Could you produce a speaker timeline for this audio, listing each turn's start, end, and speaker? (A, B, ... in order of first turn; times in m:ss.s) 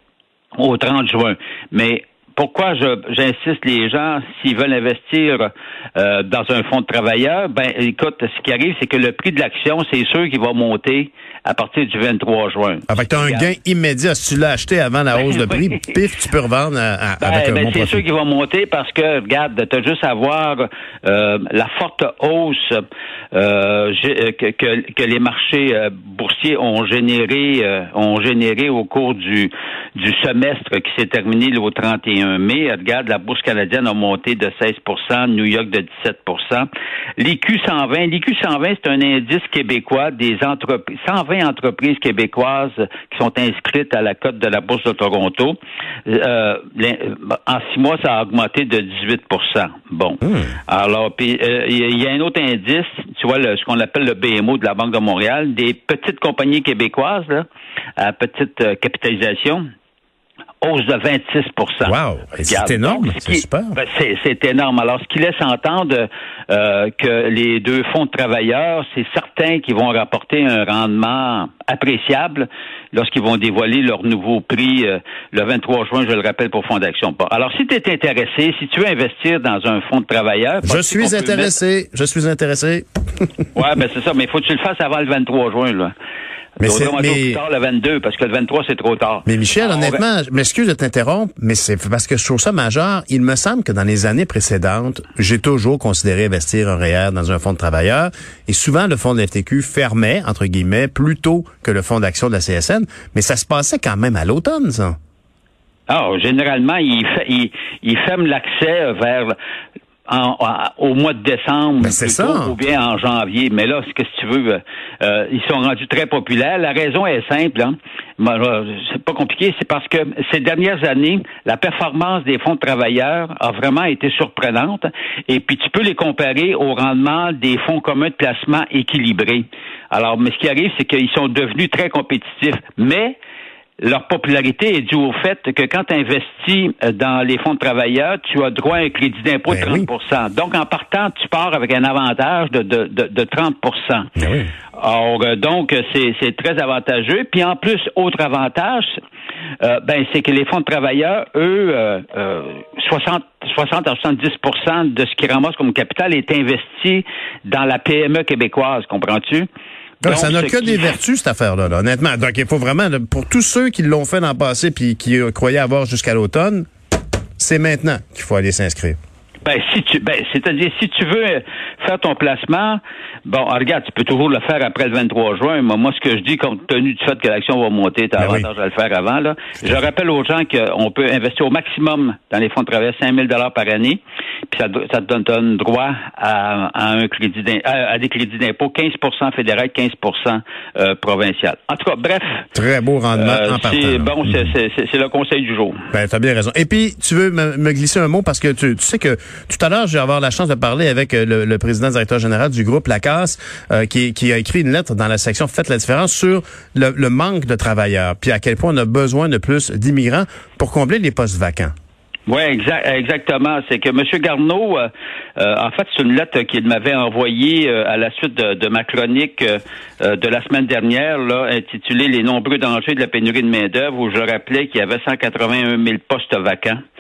0:00.6-0:13.5 A
0:12.9-0:18.0 B
0:15.2-0:15.9 A
0:17.2-0:57.5 A
0:58.0-0:59.6 A
1:00.6-1:21.6 A
1:01.8-1:03.8 B
1:20.6-1:23.4 B
1:23.6-1:25.9 A
1:26.6-1:27.4 B
1:26.6-1:30.0 A
1:29.3-1:45.0 B
1:45.9-1:49.4 A
1:50.1-2:13.2 A
1:51.8-1:52.6 B
2:13.8-2:24.1 A
2:19.5-2:19.9 B
2:24.2-2:24.5 B
2:24.8-2:28.9 A
2:29.6-2:39.5 A
2:40.0-2:46.7 B
2:40.0-2:41.0 A
2:47.4-2:49.0 B
2:49.4-3:12.5 A
2:58.2-2:58.5 B
3:12.6-3:14.5 B
3:13.2-3:15.8 A
3:15.9-3:31.7 B
3:32.3-3:46.8 A